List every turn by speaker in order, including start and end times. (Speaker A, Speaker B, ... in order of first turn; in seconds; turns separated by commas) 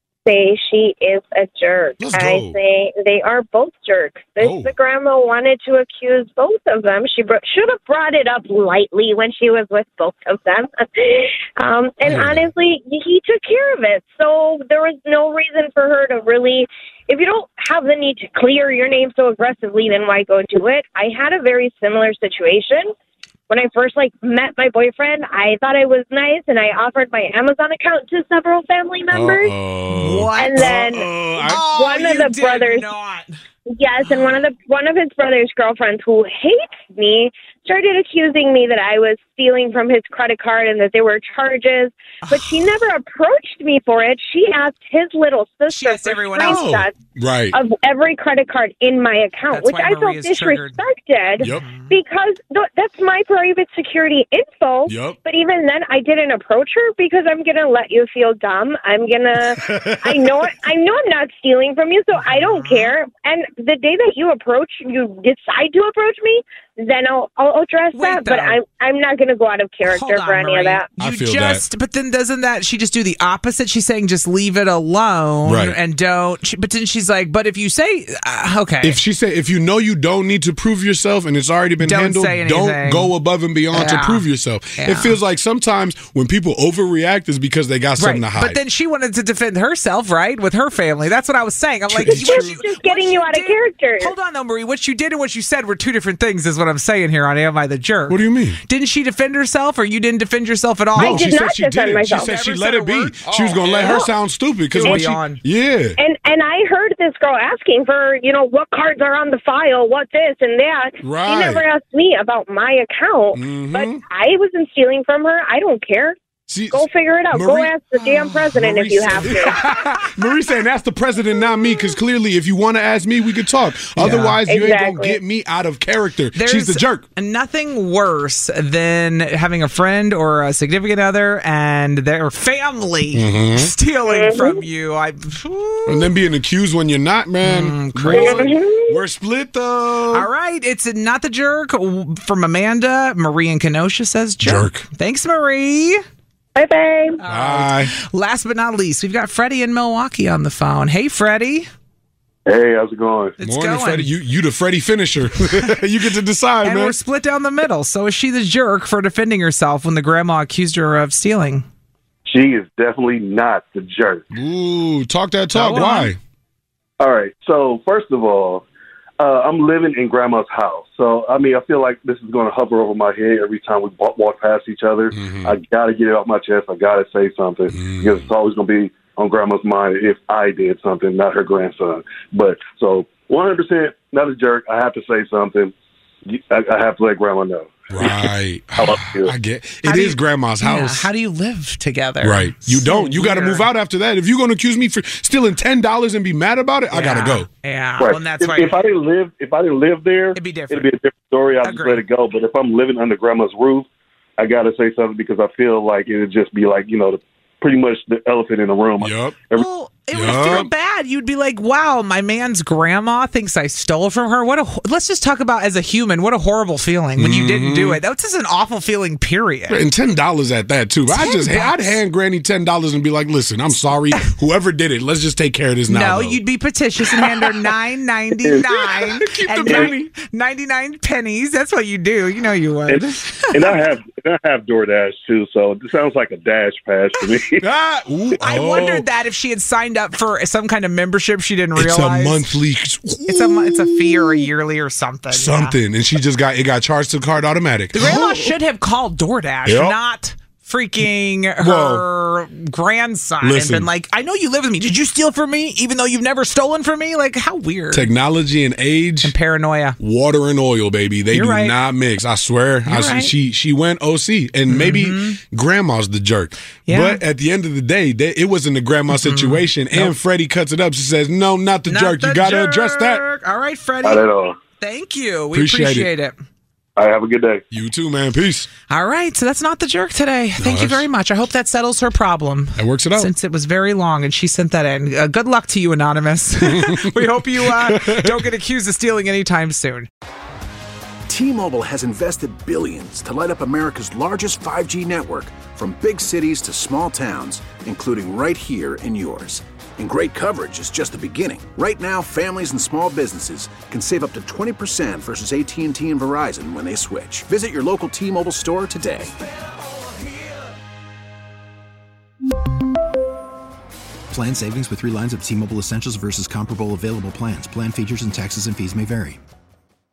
Speaker A: 0.2-22.9, Speaker B: 2.0-2.5, Speaker B: 4.4-4.7, Speaker B: 12.1-12.5, Speaker A: 23.5-29.6, Speaker B: 29.1-31.6, Speaker C: 29.9-30.8, Speaker A: 30.4-32.9, Speaker C: 31.4-33.3, Speaker A: 33.7-47.0, Speaker C: 34.1-34.4, Speaker C: 42.2-42.7, Speaker C: 45.7-46.7, Speaker B: 46.4-47.5, Speaker A: 47.5-70.9, Speaker C: 49.5-50.8, Speaker C: 51.4-52.0, Speaker B: 51.4-51.6, Speaker B: 54.9-55.2, Speaker B: 59.5-60.1, Speaker C: 62.1-62.9, Speaker C: 67.9-68.6, Speaker C: 69.8-79.0, Speaker B: 71.0-71.6, Speaker B: 75.4-75.8, Speaker B: 78.8-88.6, Speaker C: 81.8-83.1, Speaker C: 83.7-84.2, Speaker C: 84.8-85.2, Speaker C: 88.0-101.3, Speaker B: 91.9-92.6, Speaker A: 92.0-94.1, Speaker B: 98.1-98.6, Speaker A: 100.9-102.3, Speaker B: 101.0-106.0, Speaker C: 102.1-104.1, Speaker A: 103.7-104.1, Speaker C: 104.7-105.4, Speaker A: 104.8-105.1, Speaker A: 106.0-116.2, Speaker B: 111.0-111.7, Speaker B: 113.3-114.0, Speaker B: 116.5-127.0, Speaker A: 116.7-119.6, Speaker C: 124.0-124.4, Speaker A: 124.4-125.2, Speaker C: 126.3-136.1, Speaker B: 133.1-133.7, Speaker A: 134.1-134.5, Speaker B: 135.9-140.3, Speaker C: 137.4-138.5, Speaker A: 138.1-139.0, Speaker C: 140.1-146.0, Speaker B: 144.4-144.8, Speaker A: 146.5-147.2, Speaker C: 147.2-151.7, Speaker B: 147.3-147.9, Speaker D: 152.4-153.3, Speaker C: 153.4-154.1, Speaker B: 153.4-156.9, Speaker C: 156.6-161.6, Speaker D: 162.3-164.2, Speaker B: 164.3-166.2, Speaker C: 165.5-166.1, Speaker D: 167.0-168.6, Speaker D: 169.2-185.7, Speaker B: 175.1-175.6, Speaker B: 177.7-178.3, Speaker D: 186.3-188.3, Speaker B: 187.9-191.1, Speaker D: 188.8-189.3, Speaker C: 189.8-193.7, Speaker B: 192.2-197.5, Speaker C: 196.9-198.8, Speaker D: 198.0-203.8, Speaker C: 200.3-200.9, Speaker C: 201.6-202.0, Speaker D: 204.4-209.7, Speaker B: 209.0-209.3, Speaker C: 209.5-219.8, Speaker B: 210.1-210.7, Speaker B: 217.2-218.0, Speaker B: 219.7-226.4, Speaker C: 221.1-222.0, Speaker C: 225.9-233.6, Speaker B: 227.0-227.7, Speaker D: 228.4-228.6, Speaker B: 228.8-230.1, Speaker D: 229.7-229.9, Speaker D: 232.9-237.6, Speaker B: 237.5-239.1, Speaker C: 238.4-242.5, Speaker B: 241.8-244.5, Speaker C: 243.3-245.8, Speaker B: 245.3-248.5, Speaker C: 247.9-258.1, Speaker B: 249.6-250.0, Speaker B: 251.6-252.0, Speaker B: 253.4-253.9, Speaker B: 257.9-259.3, Speaker C: 259.2-260.0, Speaker B: 260.0-273.2, Speaker C: 261.3-261.7, Speaker C: 262.8-263.3, Speaker C: 264.7-265.4, Speaker C: 266.9-267.2, Speaker C: 269.1-270.1, Speaker C: 271.9-276.3, Speaker D: 274.0-274.6, Speaker B: 275.5-276.1, Speaker D: 277.0-277.6, Speaker B: 277.7-278.7, Speaker C: 278.9-290.1, Speaker B: 280.6-281.1, Speaker B: 282.8-283.3, Speaker B: 286.6-288.5, Speaker E: 291.3-309.3, Speaker F: 314.3-319.4